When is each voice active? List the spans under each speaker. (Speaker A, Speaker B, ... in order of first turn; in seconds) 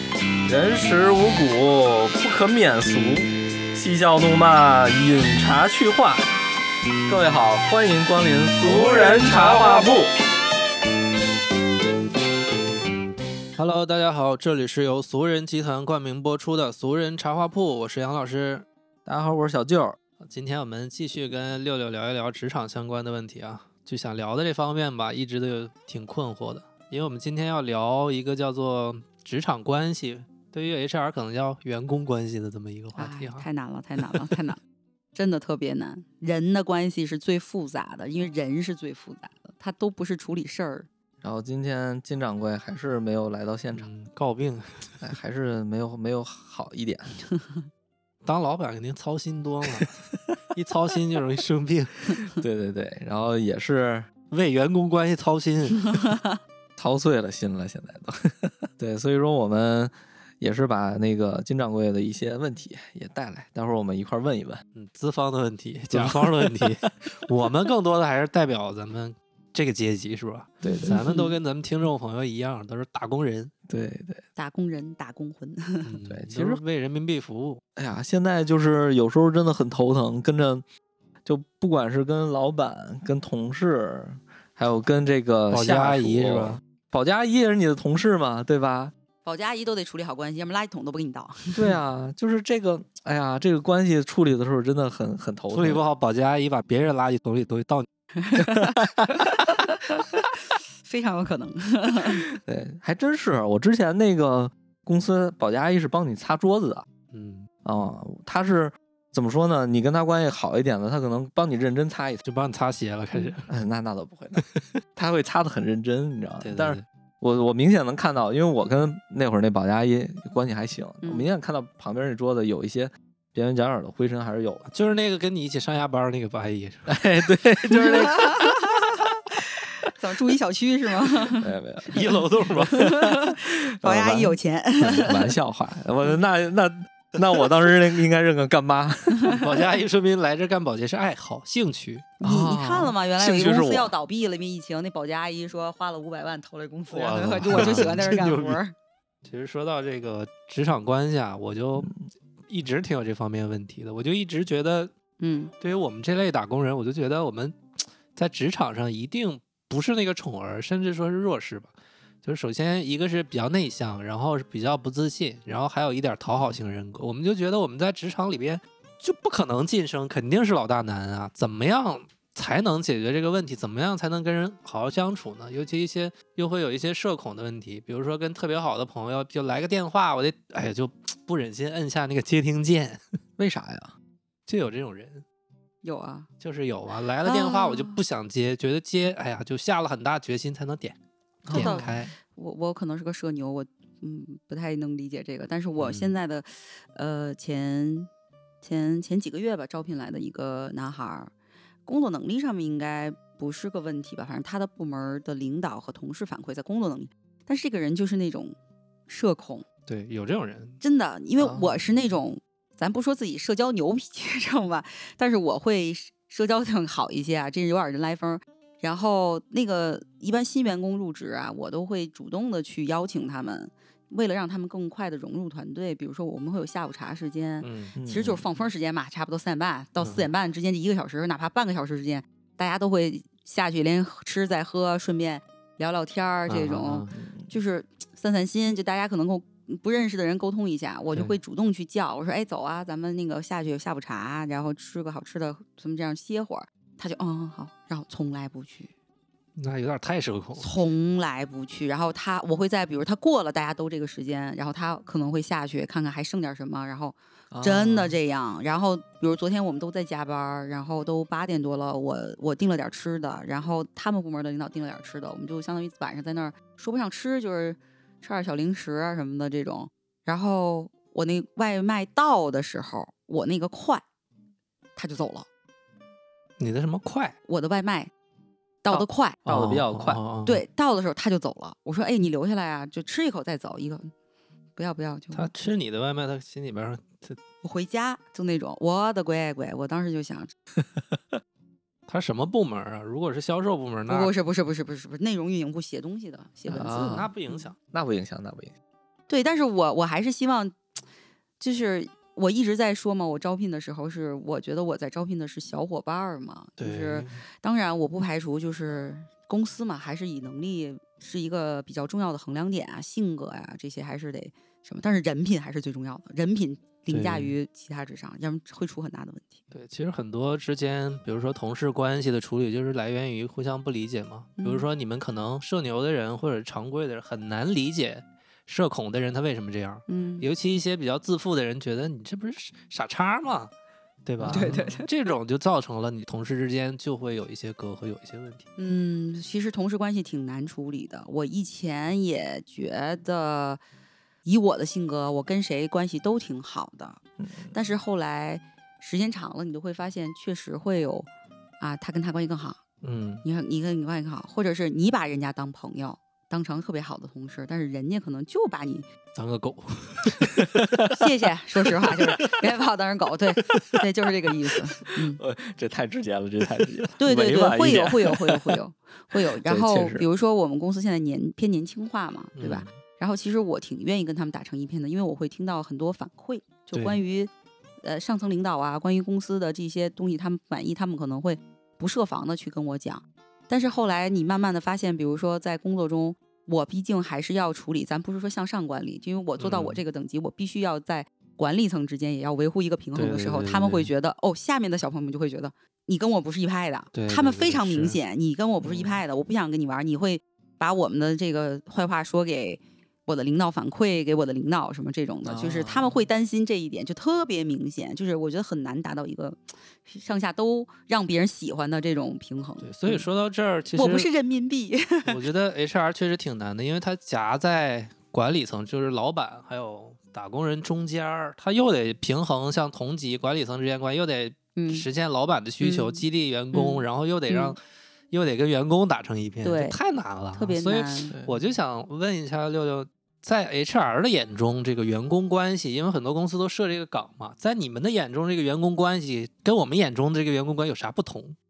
Speaker A: 0.5-6.2, 7.1-10.1, 19.1-20.0, 41.2-43.9, 45.0-47.2, 52.3-54.1, 56.8-64.6, 65.9-66.8, 70.6-71.0, 73.7-74.2, 76.1-76.6, 77.8-80.6, 81.2-88.9, 91.5-95.8, 98.3-99.0, 102.3-106.9, 107.6-112.2, 113.5-114.4, 115.0-124.7, 126.9-128.6, 131.4-131.9, 132.8-133.3, 133.8-139.4, 142.2-143.9, 147.4-148.1, 183.4-183.9, 191.4-192.1, 211.4-211.8, 227.9-228.4, 237.1-237.5, 257.5-258.1, 279.4-280.2, 296.7-297.3, 297.9-298.7, 334.4-334.8, 347.4-347.8, 360.4-361.1, 365.3-368.8, 369.3-370.2, 405.4-406.2, 431.3-431.6
Speaker B: 8.6-10.0, 13.6-18.6, 20.2-33.5, 34.0-34.3, 43.7-45.0, 48.2-50.0, 50.5-52.3, 54.3-56.1, 64.7-73.5, 75.8-77.6, 85.5-86.6, 95.5-97.9, 107.1-107.5, 112.2-113.5, 116.4-116.8, 124.7-127.0, 131.8-132.9, 139.3-142.1, 146.9-148.6, 149.2-151.9, 152.5-154.9, 155.6-157.6, 158.1-161.7, 162.2-183.0, 184.5-185.2, 186.4-190.9, 191.5-192.1, 195.8-196.1, 209.9-210.8, 227.6-227.9, 230.0-230.3, 236.5-237.1, 249.6-250.8, 276.6-277.3, 278.9-280.6, 285.3-287.4, 292.1-294.3, 296.8-297.8, 306.8-307.4, 317.1-317.5, 319.7-333.7, 334.2-338.6, 353.0-353.4, 359.3-360.6, 363.6-363.9, 372.6-372.9, 376.9-377.2, 389.6-390.0, 393.1-394.1, 397.1-398.2, 412.8-414.3, 415.2-441.6
Speaker C: 33.0-34.6, 35.1-40.9, 47.3-47.6, 56.0-56.2, 70.9-71.3, 74.3-75.9, 89.2-91.6, 98.2-102.2, 121.0-121.3, 127.7-131.5, 132.0-135.3, 139.2-139.5, 142.2-148.7, 155.2-155.5, 185.8-186.3, 187.2-188.0, 191.5-198.1, 198.6-201.3, 201.8-208.6, 209.1-209.7, 210.8-248.9, 250.6-274.0, 274.9-275.5, 277.4-278.1, 278.8-279.4, 280.4-284.1, 284.8-285.7, 287.6-290.5, 294.1-297.7, 299.3-300.8, 301.6-319.6, 324.6-324.9, 330.1-330.5, 334.5-335.1, 338.8-343.8, 344.4-347.2, 347.7-351.3, 351.8-352.8, 353.4-359.1, 361.1-365.4, 367.2-377.5, 378.0-413.2, 413.9-415.4, 424.7-425.1, 425.8-427.7, 429.6-430.0, 430.5-431.3